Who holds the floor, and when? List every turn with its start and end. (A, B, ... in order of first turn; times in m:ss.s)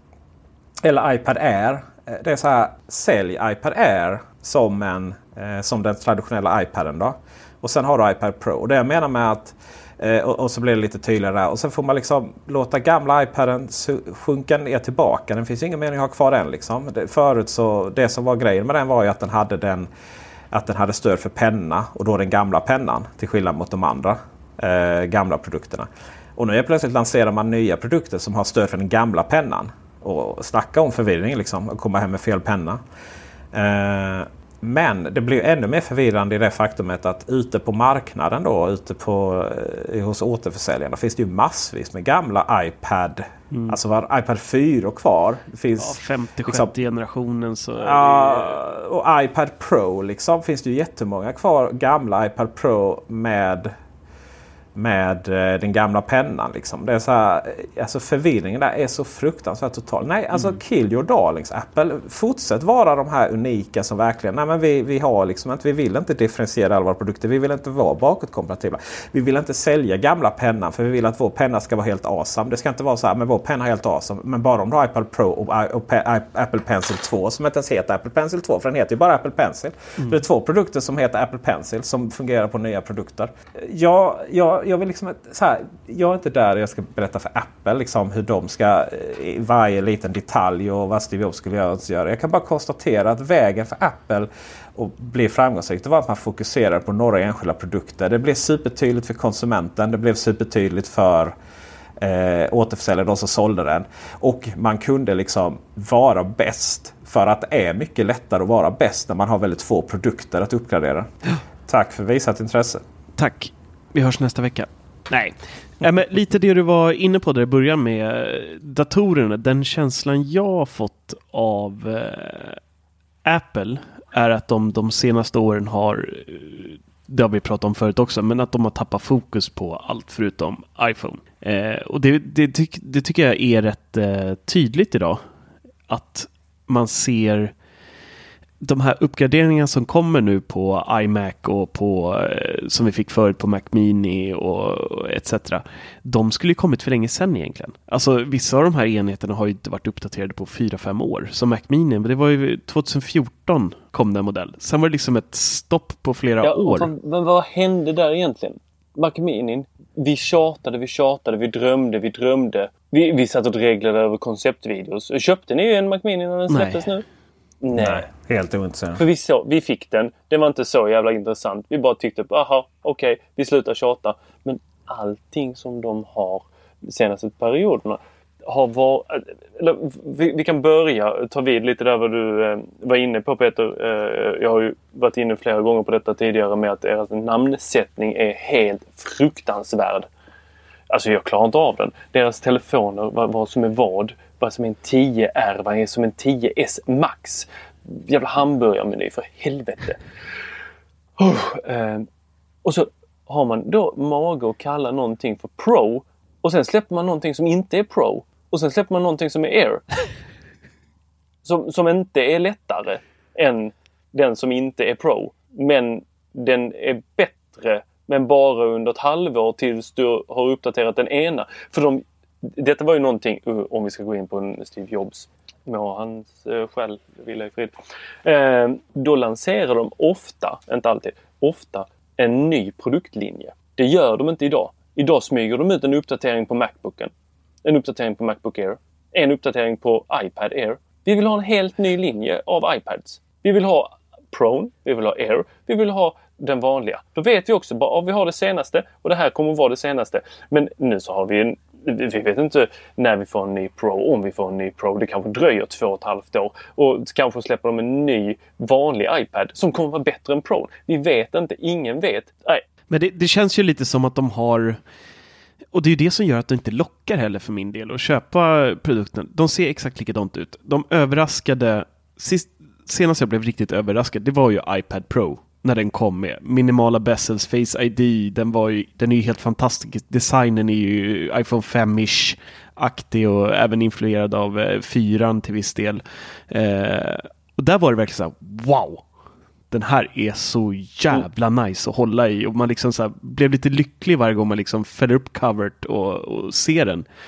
0:00.8-0:19.9 A
0:20.5-0:32.8 A
0:33.5-0:46.7 A
0:43.5-0:43.8 B
0:45.8-0:48.6 B
0:47.8-0:53.7 A
0:54.8-1:41.3 A
1:00.3-1:00.6 B
1:42.0-1:51.1 A
1:51.6-1:52.8 A
1:53.2-2:02.6 B
2:03.2-2:15.2 B
2:15.9-2:17.5 B
2:18.6-2:36.9 B
2:36.4-2:47.0 C
2:46.5-2:46.9 B
2:47.6-2:48.1 C
2:47.7-2:49.0 A
2:49.0-3:10.1 C
3:10.9-3:20.0 C
3:21.2-3:22.0 C
3:22.6-3:29.8 C
3:31.4-3:47.7 C
3:48.2-3:57.1 C
3:57.6-4:22.6 C
4:22.9-4:24.8 B
4:25.7-4:49.0 B
4:49.7-4:57.0 B